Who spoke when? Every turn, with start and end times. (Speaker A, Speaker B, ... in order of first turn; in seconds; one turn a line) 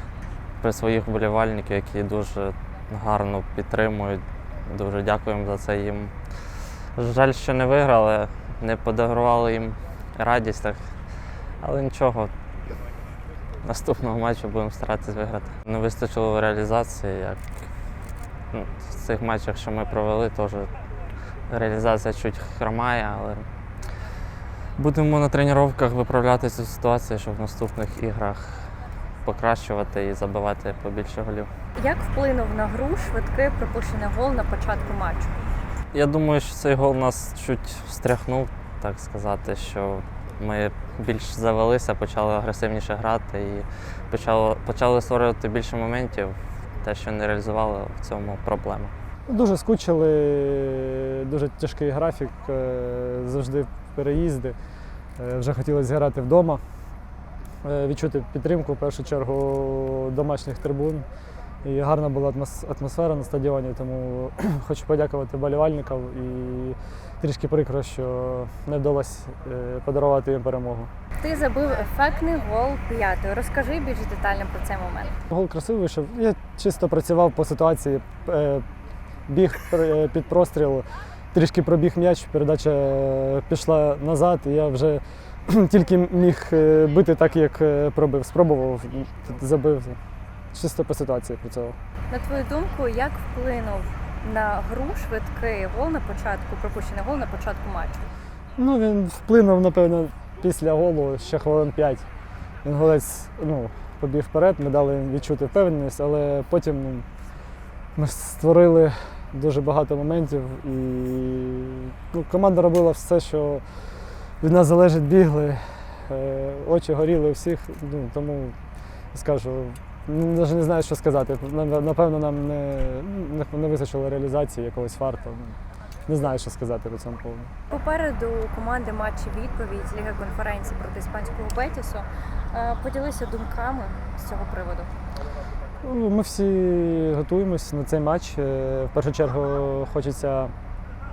Speaker A: 0.6-10.9
Speaker A: 11.6-12.3
Speaker A: 13.6-17.4
Speaker A: 18.5-20.7
Speaker A: 21.5-23.4
Speaker A: 24.8-28.7
Speaker A: 29.2-31.5
Speaker B: 31.8-35.3
Speaker A: 35.9-48.9
Speaker C: 49.3-54.5
Speaker C: 55.2-56.6
Speaker C: 57.6-61.0
Speaker C: 61.6-70.9
Speaker B: 71.2-75.2
Speaker C: 75.3-78.6
Speaker C: 79.3-90.0
Speaker C: 90.5-91.8
Speaker B: 92.1-98.0
Speaker C: 98.6-102.0
Speaker C: 102.6-107.0
Speaker C: 108.0-113.8
Speaker C: 114.4-118.5
Speaker C: 119.1-125.5
Speaker C: 126.1-127.5
Speaker B: 127.7-134.9
Speaker C: 135.8-140.5